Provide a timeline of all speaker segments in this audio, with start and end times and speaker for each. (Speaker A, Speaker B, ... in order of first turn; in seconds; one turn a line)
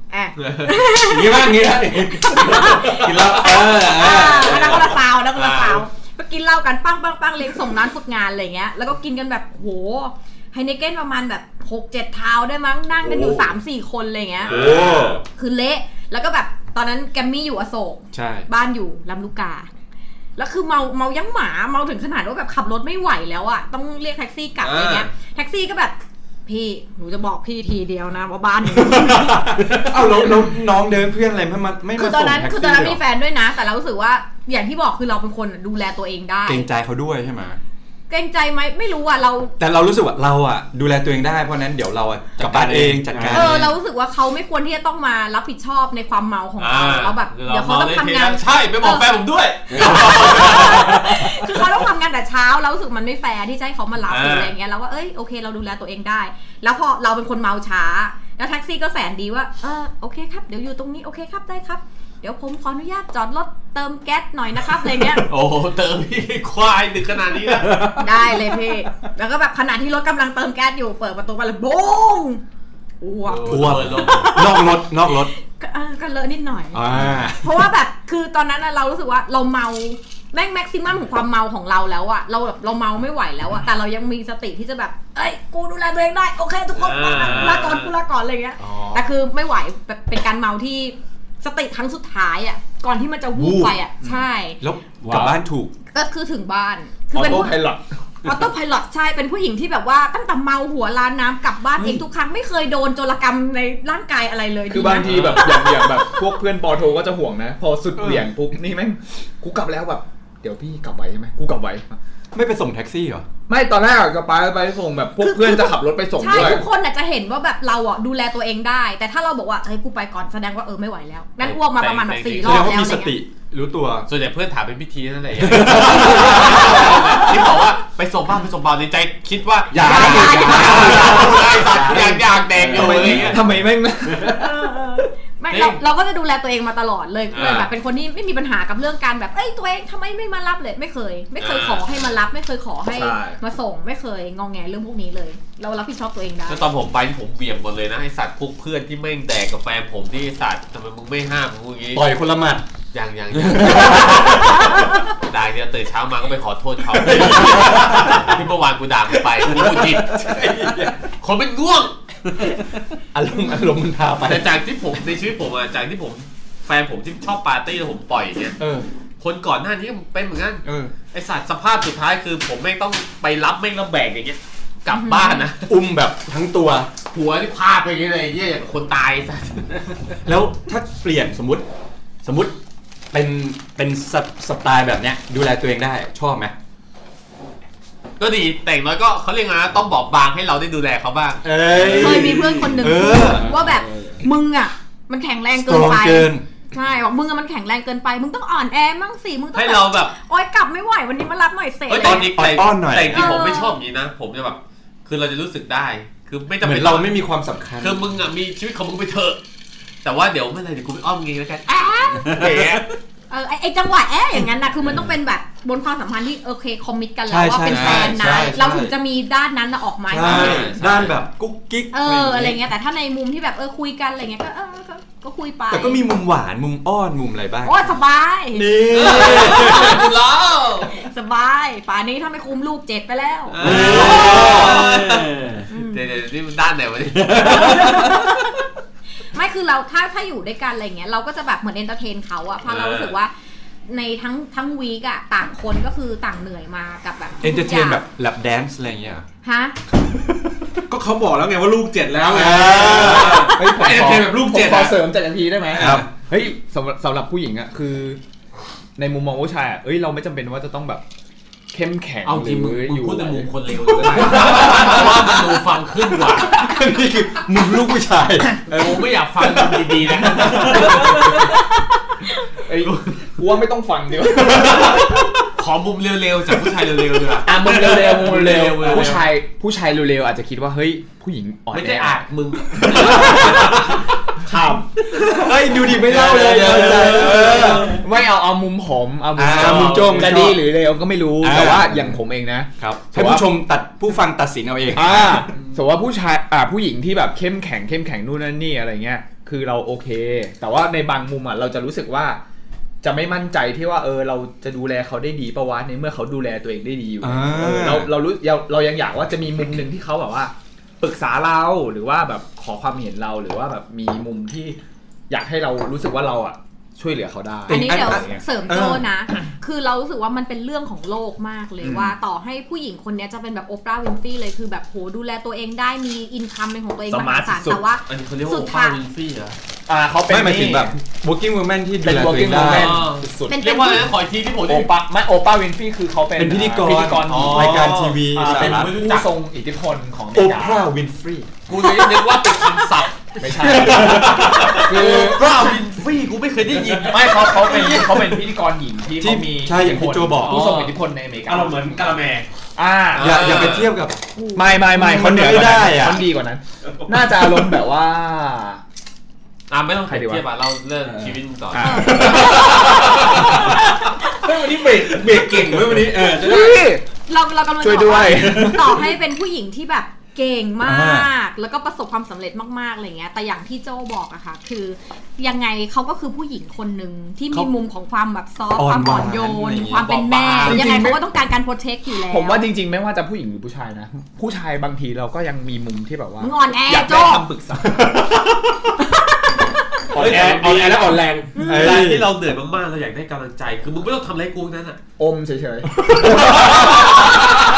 Speaker A: 0.1-14.6
Speaker B: 0.4-0.8
Speaker C: 1.0-5.0
Speaker B: 2.6-5.8
Speaker D: 13.0-13.5
Speaker B: 14.4-15.2
Speaker D: 14.5-15.2
Speaker A: 15.3-19.7
Speaker D: 18.1-18.5
Speaker A: 20.4-29.4
Speaker B: 24.6-25.1
Speaker D: 28.7-33.0
Speaker A: 31.9-36.7
Speaker D: 36.5-37.6
Speaker A: 38.1-39.5
Speaker D: 39.6-43.7
Speaker C: 42.4-43.6
Speaker A: 43.3-49.2
Speaker B: 46.6-51.2
Speaker C: 49.7-51.2
Speaker A: 49.7-65.3
Speaker B: 54.1-54.5
Speaker B: 65.2-67.9
Speaker C: 67.7-68.1
Speaker A: 68.0-72.4
Speaker A: 73.0-76.8
Speaker B: 73.3-74.3
Speaker D: 73.5-75.3
Speaker D: 76.7-77.7
Speaker A: 77.4-94.6
Speaker B: 86.8-87.9
Speaker D: 93.3-93.8
Speaker D: 94.6-95.7
Speaker C: 95.0-95.3
Speaker A: 95.9-97.6
Speaker E: 97.1-97.9
Speaker A: 98.2-106.2
Speaker E: 104.7-112.0
Speaker B: 105.1-105.6
Speaker D: 108.0-108.2
Speaker D: 112.3-113.3
Speaker E: 113.5-116.7
Speaker A: 115.2-123.2
Speaker B: 121.4-122.7
Speaker D: 122.4-124.1
Speaker B: 124.1-133.4
Speaker D: 125.5-127.0
Speaker D: 129.7-133.3
Speaker C: 129.7-133.5
Speaker A: 129.8-131.4
Speaker E: 132.7-134.4
Speaker A: 134.3-146.7
Speaker B: 135.5-135.8
Speaker B: 137.3-137.7
Speaker B: 141.4-141.9
Speaker E: 142.9-143.4
Speaker B: 146.5-152.1
Speaker D: 151.9-152.6
Speaker B: 152.9-160.4
Speaker D: 153.3-154.9
Speaker A: 154.7-155.0
Speaker D: 156.9-158.4
Speaker D: 159.3-161.0
Speaker B: 161.2-162.0
Speaker D: 163.1-164.6
Speaker B: 164.2-168.6
Speaker D: 168.6-168.9
Speaker B: 169.2-175.7
Speaker D: 170.7-170.9
Speaker A: 174.9-175.5
Speaker D: 175.7-176.9
Speaker B: 177.1-180.0
Speaker D: 180.2-181.7
Speaker D: 182.2-182.6
Speaker D: 183.1-186.5
Speaker B: 188.2-191.4
Speaker D: 191.4-193.5
Speaker C: 191.7-194.2
Speaker A: 191.9-202.4
Speaker D: 195.6-196.4
Speaker B: 199.5-200.1
Speaker B: 201.9-207.2
Speaker D: 202.0-203.4
Speaker A: 203.1-203.8
Speaker D: 206.6-208.0
Speaker B: 207.8-209.4
Speaker B: 210.0-212.9
Speaker A: 211.7-212.4
Speaker C: 212.3-212.8
Speaker A: 213.3-220.8
Speaker D: 217.3-218.9
Speaker B: 217.7-218.6
Speaker D: 220.1-222.6
Speaker B: 220.2-221.1
Speaker A: 221.9-226.0
Speaker D: 225.7-227.9
Speaker A: 227.6-230.1
Speaker D: 228.5-230.1
Speaker B: 228.9-231.0
Speaker A: 230.9-235.1
Speaker B: 233.5-238.1
Speaker D: 233.6-234.9
Speaker C: 233.6-235.7
Speaker A: 235.7-236.1
Speaker C: 237.3-238.2
Speaker A: 237.4-238.6
Speaker A: 239.2-243.3
Speaker B: 242.7-243.2
Speaker A: 243.9-248.0
Speaker D: 247.4-249.3
Speaker A: 249.4-249.8
Speaker D: 250.0-250.4
Speaker C: 250.9-255.0
Speaker D: 252.3-253.6
Speaker E: 252.9-258.2
Speaker D: 255.7-256.1
Speaker E: 259.0-261.1
Speaker E: 261.7-265.2
Speaker B: 262.2-266.6
Speaker D: 266.4-268.6
Speaker B: 268.7-271.3
Speaker D: 269.5-271.1
Speaker E: 270.4-271.3
Speaker E: 272.6-275.1
Speaker B: 272.8-273.2
Speaker D: 274.4-275.3
Speaker B: 275.6-279.3
Speaker E: 277.4-282.2
Speaker B: 281.7-284.0
Speaker E: 282.8-283.9
Speaker D: 282.9-283.8
Speaker E: 284.4-293.5
Speaker D: 285.2-288.0
Speaker B: 286.1-287.8
Speaker C: 287.7-288.0
Speaker D: 289.4-290.6
Speaker B: 289.5-290.4
Speaker D: 291.4-292.2
Speaker D: 292.8-295.5
Speaker E: 294.9-302.4
Speaker E: 303.0-314.8
Speaker D: 307.2-308.1
Speaker E: 315.3-318.4
Speaker D: 317.7-319.1
Speaker A: 317.7-329.0
Speaker E: 321.8-322.2
Speaker E: 327.1-327.8
Speaker B: 328.1-329.6
Speaker E: 329.9-330.9
Speaker D: 330.3-333.0
Speaker E: 332.0-333.6
Speaker B: 332.4-334.9
Speaker A: 333.5-334.1
Speaker E: 334.6-340.9
Speaker D: 336.4-338.9
Speaker B: 337.3-339.3
Speaker D: 340.3-341.5
Speaker B: 341.7-343.3
Speaker E: 343.4-345.5
Speaker C: 343.5-344.9
Speaker B: 343.9-347.6
Speaker E: 347.1-351.9
Speaker D: 347.7-348.1
Speaker D: 349.2-350.6
Speaker B: 350.4-350.9
Speaker C: 351.5-352.5
Speaker E: 352.8-353.7
Speaker B: 353.1-354.0
Speaker D: 353.2-354.2
Speaker A: 354.4-354.7
Speaker E: 354.5-358.8
Speaker D: 354.8-356.2
Speaker C: 356.9-357.7
Speaker B: 359.7-363.6
Speaker E: 360.1-360.4
Speaker C: 361.1-366.8
Speaker E: 361.7-363.8
Speaker A: 361.8-364.4
Speaker E: 366.3-367.0
Speaker A: 366.4-366.7
Speaker A: 367.3-382.7
Speaker E: 367.8-369.0
Speaker C: 368.3-368.8
Speaker D: 370.8-371.3
Speaker D: 378.8-380.1
Speaker B: 380.0-380.9
Speaker E: 380.6-381.2
Speaker E: 382.3-388.2
Speaker A: 386.4-387.4
Speaker D: 387.9-388.9
Speaker A: 389.0-389.8
Speaker C: 390.1-391.6
Speaker E: 390.1-391.0
Speaker B: 390.2-395.0
Speaker A: 391.6-392.0
Speaker D: 391.6-392.3
Speaker E: 395.2-396.8
Speaker D: 396.0-397.0